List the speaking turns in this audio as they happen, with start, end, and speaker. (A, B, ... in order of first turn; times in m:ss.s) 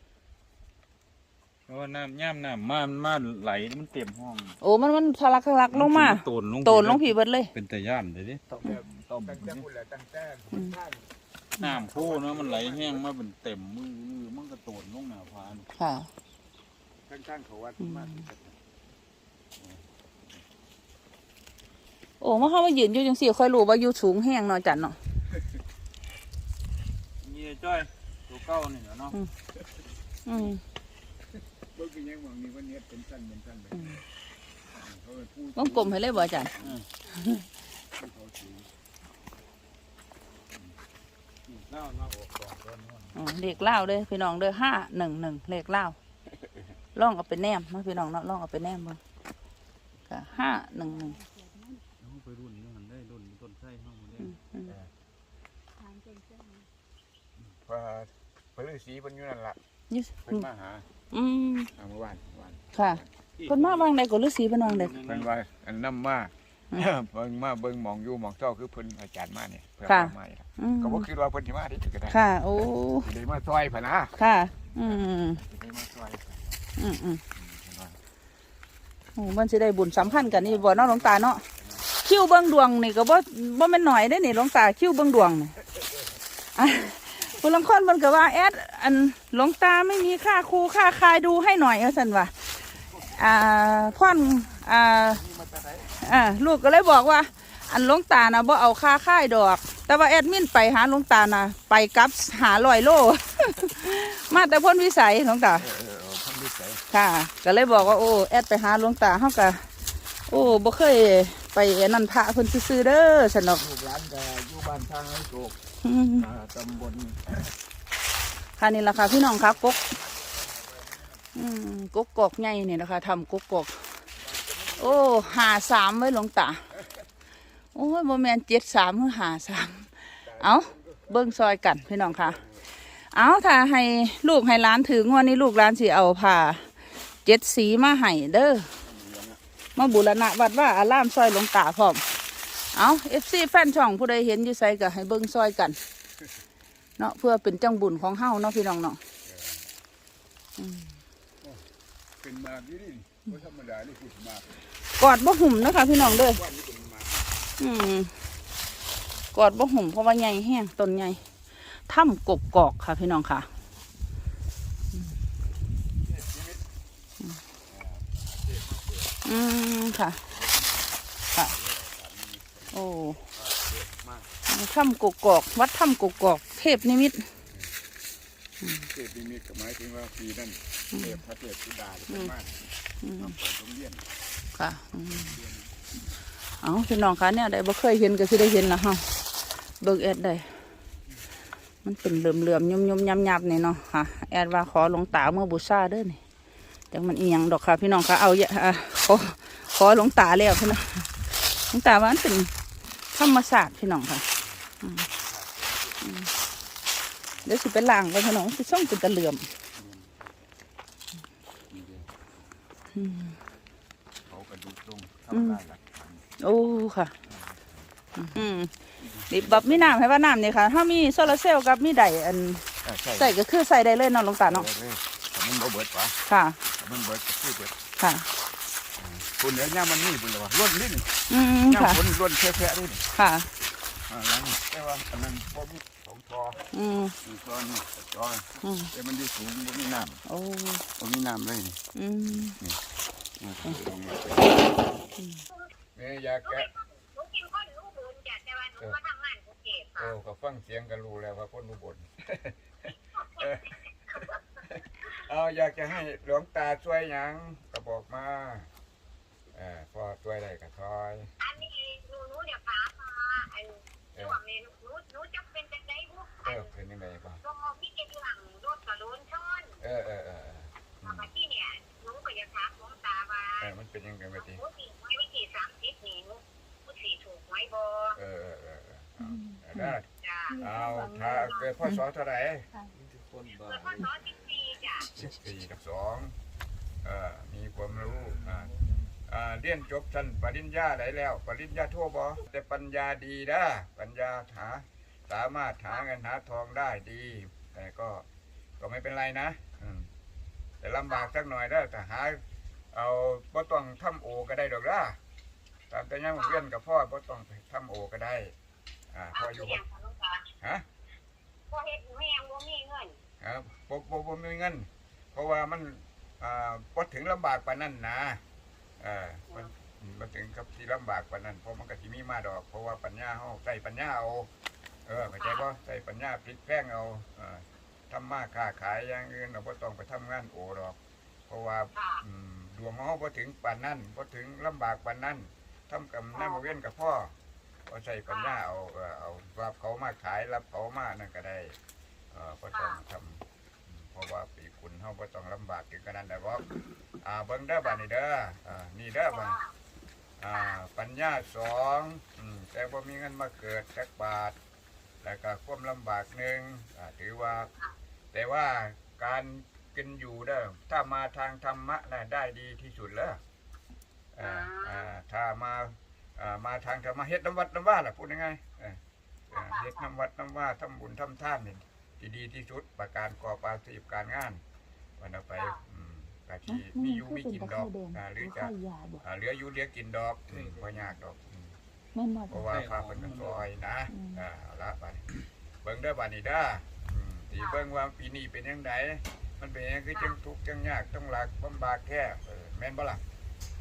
0:01.7-0:04.6 A
0:04.6-0:07.5 B
0:05.7-0:09.7 A
0:08.5-0:11.1 C
0:11.6-0:15.7 A
0:11.6-0:13.0 C
0:15.8-0:16.1 B
0:17.1-0:18.6 C
0:19.6-0:19.8 C
0:22.2-0:25.0 B
0:27.2-0:29.2 A
0:30.3-0:30.6 B
0:31.6-0:34.0 C
0:34.7-0:36.8 C
0:35.6-0:36.5 B
0:37.2-0:37.4 B
0:38.0-0:38.7 C
0:41.5-0:42.7 C
0:41.8-0:43.9 A
0:43.2-0:46.0 B
0:47.0-0:49.0 B
0:50.1-0:51.2 B
0:50.8-0:51.9 D
0:52.0-0:54.3 A
0:54.4-0:54.7 B
0:54.6-0:54.9 C
0:55.8-0:56.7 D
0:57.6-0:59.6 C
0:59.9-1:00.4 B
1:00.2-1:00.9 C
1:01.1-1:01.7 B
1:01.8-1:03.1 C
1:02.7-1:05.0 B
1:03.4-1:03.9 A
1:04.6-1:05.3 A
1:05.0-1:12.2 C
1:09.9-1:11.1 B
1:12.1-1:13.1 B
1:13.0-1:14.2 C
1:14.2-1:15.4 B
1:14.8-1:16.6 C
1:16.8-1:17.2 B
1:17.4-1:18.0 C
1:19.2-1:21.4 B
1:19.8-1:21.9 C
1:22.0-1:25.6 B
1:26.6-1:32.3 B
1:33.0-1:34.5 C
1:33.1-1:35.2 B
1:35.0-1:36.0 C
1:36.0-1:45.7 B
1:45.6-1:46.8 C
1:46.9-1:49.7 B
1:50.3-1:53.6 B
1:53.6-1:55.6 C
1:55.8-1:56.3 B
1:56.2-1:57.4 C
1:58.6-1:59.8 B
1:59.2-2:01.2 C
2:01.4-2:03.8 B
2:04.2-2:05.3 C
2:04.8-2:06.6 B
2:06.7-2:07.0 C
2:07.7-2:12.4 B
2:10.2-2:11.5 C
2:12.0-2:12.7 C
2:13.1-2:16.7 B
2:17.2-2:18.7 B
2:18.8-2:19.4 C
2:19.8-2:22.0 B
2:22.7-2:25.8 B
2:27.0-2:29.0 B
2:29.2-2:29.7 C
2:30.6-2:30.9 B
2:32.2-2:34.6 C
2:35.0-2:36.4 B
2:35.8-2:37.4 C
2:37.6-2:38.1 B
2:39.3-2:41.2 B
2:41.9-2:43.5 B
2:46.0-2:46.6 C
2:47.7-2:49.2 C
2:49.2-2:50.2 B
2:50.2-2:54.3 C
2:52.7-2:53.2 B
2:54.5-2:57.3 B
2:58.8-3:04.1 C
3:03.0-3:03.3 B
3:04.6-3:05.4 B
3:05.1-3:05.7 C
3:06.6-3:09.1 B
3:09.8-3:10.5 B
3:11.8-3:16.2 B
3:16.9-3:22.5 B
3:23.1-3:24.3 B
3:24.4-3:26.2 C
3:26.0-3:26.3 B
3:27.4-3:29.5 B
3:29.8-3:30.4 C
3:31.7-3:32.4 C
3:33.0-3:33.3 B
3:34.3-3:36.2 C
3:35.3-3:35.6 B
3:36.4-3:37.1 B
3:37.3-3:37.8 C
3:38.2-3:38.7 B
3:39.0-3:40.0 C
3:39.3-3:44.7 B
3:42.8-3:43.4 C
3:44.5-3:46.2 C
3:46.3-3:46.6 B
3:46.7-3:47.8 C
3:48.0-3:48.3 B
3:49.0-3:53.1 C
3:51.3-3:52.0 B
3:53.2-3:53.5 B
3:54.1-3:56.6 C
3:56.7-3:57.2 B
3:57.2-4:00.2 C
3:58.6-3:58.9 B
4:00.3-4:00.8 B
4:01.0-4:02.8 C
4:02.0-4:02.6 B
4:03.4-4:04.8 C
4:06.0-4:06.7 C
4:07.2-4:09.9 E
4:10.0-4:18.7 C
4:19.5-4:21.3 C
4:21.5-4:23.7 E
4:24.3-4:26.5 E
4:26.4-4:27.4 C
4:27.4-4:29.7 E
4:29.8-4:31.3 C
4:31.1-4:33.5 E
4:33.6-4:34.6 C
4:34.6-4:38.1 E
4:38.1-4:42.7 C
4:40.5-4:41.7 D
4:43.0-4:44.2 A
4:43.7-4:45.0 E
4:45.2-4:46.3 C
4:47.0-4:48.7 C
4:49.3-4:58.2 C
4:58.8-5:00.1 C
5:00.8-5:02.4 C
5:02.9-5:05.2 C
5:05.9-5:08.5 C
5:09.1-5:09.8 C
5:09.5-5:10.4 E
5:10.6-5:10.8 C
5:11.7-5:13.2 E
5:13.4-5:18.4 C
5:19.0-5:24.5 C
5:25.1-5:37.3 C
5:37.9-5:41.8 C
5:42.3-5:46.7 C
5:47.2-5:49.6 C
5:50.4-5:54.6 C
5:55.2-5:57.7 C
5:58.3-6:03.4 C
6:04.4-6:14.6 C
6:04.4-6:04.8 E
6:15.2-6:21.8 C
6:16.7-6:19.2 B
6:20.5-6:21.0 A
6:22.2-6:22.6 B
6:22.5-6:25.2 C
6:22.5-6:23.7 A
6:24.1-6:24.4 B
6:25.8-6:33.2 C